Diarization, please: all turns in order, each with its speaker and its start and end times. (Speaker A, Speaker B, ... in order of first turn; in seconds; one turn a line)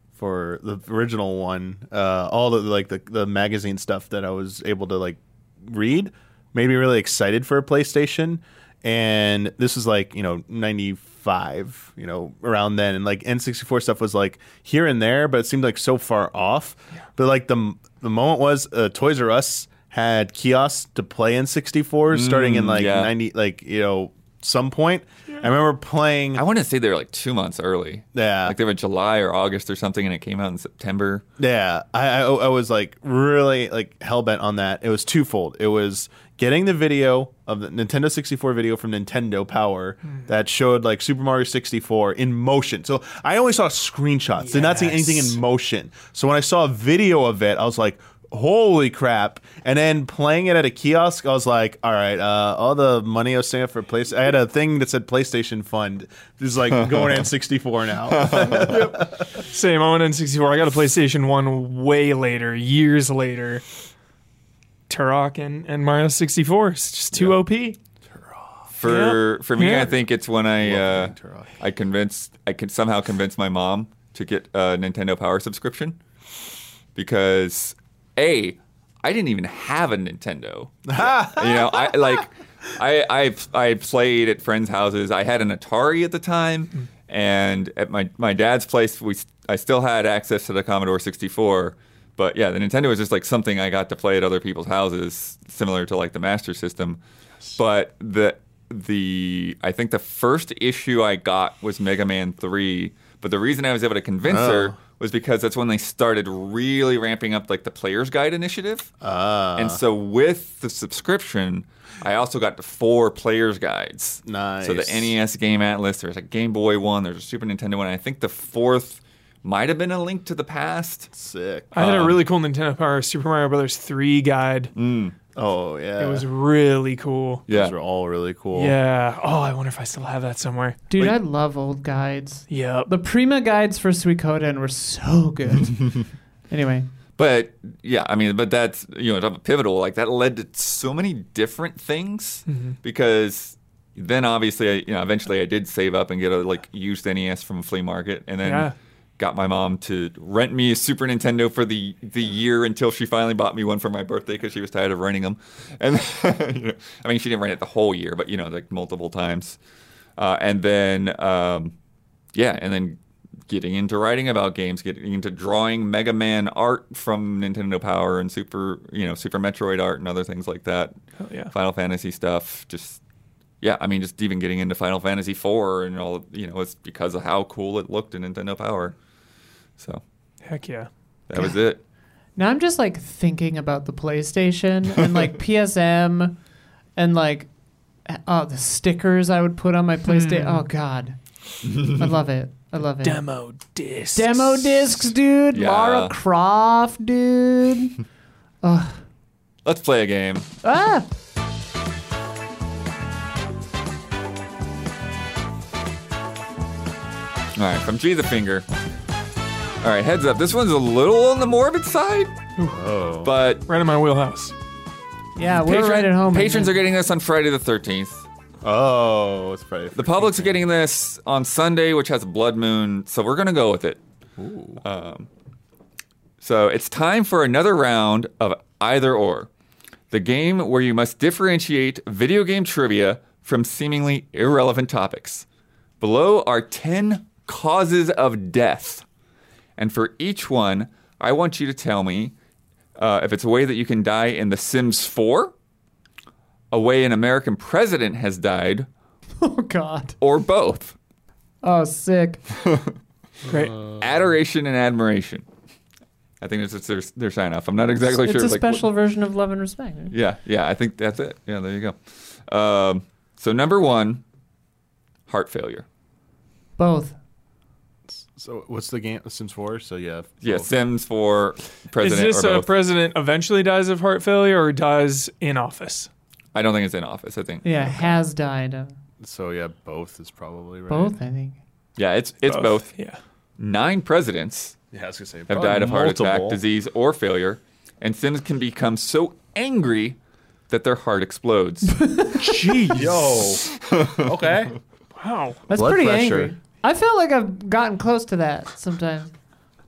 Speaker A: 0.1-26.4
Speaker B: 22.1-23.1
Speaker B: 26.3-31.2
Speaker A: 28.1-28.6
Speaker A: 31.4-59.2
Speaker C: 44.4-45.4
Speaker B: 56.8-57.1
Speaker B: 58.1-58.8
Speaker C: 58.5-63.6
Speaker C: 64.9-67.8
Speaker B: 68.7-76.0
Speaker C: 68.8-69.9
Speaker A: 70.6-71.6
Speaker B: 76.9-97.0
Speaker A: 80.9-82.2
Speaker B: 97.5-108.9
Speaker A: 104.2-104.8
Speaker A: 109.0-109.8
Speaker B: 109.5-121.1
Speaker A: 114.2-115.1
Speaker A: 121.1-121.7
Speaker C: 121.7-124.7
Speaker B: 121.7-122.2
Speaker B: 124.7-125.2
Speaker A: 125.3-126.2
Speaker C: 126.0-127.4
Speaker B: 127.5-127.7
Speaker A: 127.5-128.8
Speaker C: 128.5-131.1
Speaker D: 130.9-136.9
Speaker C: 132.5-132.9
Speaker B: 137.2-159.6
Speaker C: 142.5-142.7
Speaker C: 148.4-148.7
Speaker B: 160.2-161.7
Speaker B: 162.3-170.9
Speaker C: 171.2-171.5
Speaker B: 171.5-173.0
Speaker B: 173.6-178.9
Speaker C: 180.4-180.9
Speaker B: 181.3-181.8
Speaker D: 182.3-186.4
Speaker D: 186.9-187.5
Speaker D: 188.1-191.2
Speaker C: 190.1-190.7
Speaker B: 191.7-192.0
Speaker D: 191.7-193.2
Speaker C: 193.0-195.1
Speaker D: 194.1-198.0
Speaker B: 195.5-196.1
Speaker D: 198.6-199.0
Speaker B: 199.6-200.4
Speaker D: 200.6-201.1
Speaker B: 207.6-208.6
Speaker B: 209.8-212.3
Speaker A: 212.7-213.3
Speaker B: 213.2-213.6
Speaker C: 213.7-214.5
Speaker D: 215.3-216.8
Speaker B: 215.5-218.2
Speaker A: 218.6-220.6
Speaker B: 219.9-224.0
Speaker A: 224.4-224.8
Speaker B: 224.8-225.3
Speaker B: 226.4-229.5
Speaker B: 230.1-235.4
Speaker B: 236.0-239.0
Speaker B: 239.8-242.3
Speaker B: 243.0-245.5
Speaker B: 246.7-248.9
Speaker D: 249.4-250.2
Speaker B: 250.2-250.9
Speaker D: 251.6-252.4
Speaker B: 252.6-252.9
Speaker C: 253.5-253.7
Speaker A: 253.5-254.0
Speaker B: 253.9-255.4
Speaker B: 256.4-258.9
Speaker D: 258.1-260.1
Speaker B: 260.1-261.9
Speaker B: 262.5-264.2
Speaker B: 265.3-265.8
Speaker D: 266.8-267.1
Speaker A: 268.1-270.7
Speaker B: 270.4-272.7
Speaker C: 272.0-276.1
Speaker B: 276.5-277.6
Speaker D: 277.6-278.9
Speaker A: 279.2-281.2
Speaker D: 280.9-281.6
Speaker B: 282.0-282.9
Speaker C: 282.4-283.2
Speaker B: 283.6-284.8
Speaker A: 284.9-286.6
Speaker B: 285.5-290.2
Speaker B: 290.7-292.1
Speaker D: 292.0-292.9
Speaker C: 292.4-293.2
Speaker A: 292.9-294.8
Speaker B: 293.7-294.3
Speaker C: 295.1-295.6
Speaker D: 295.7-299.3
Speaker A: 295.7-296.5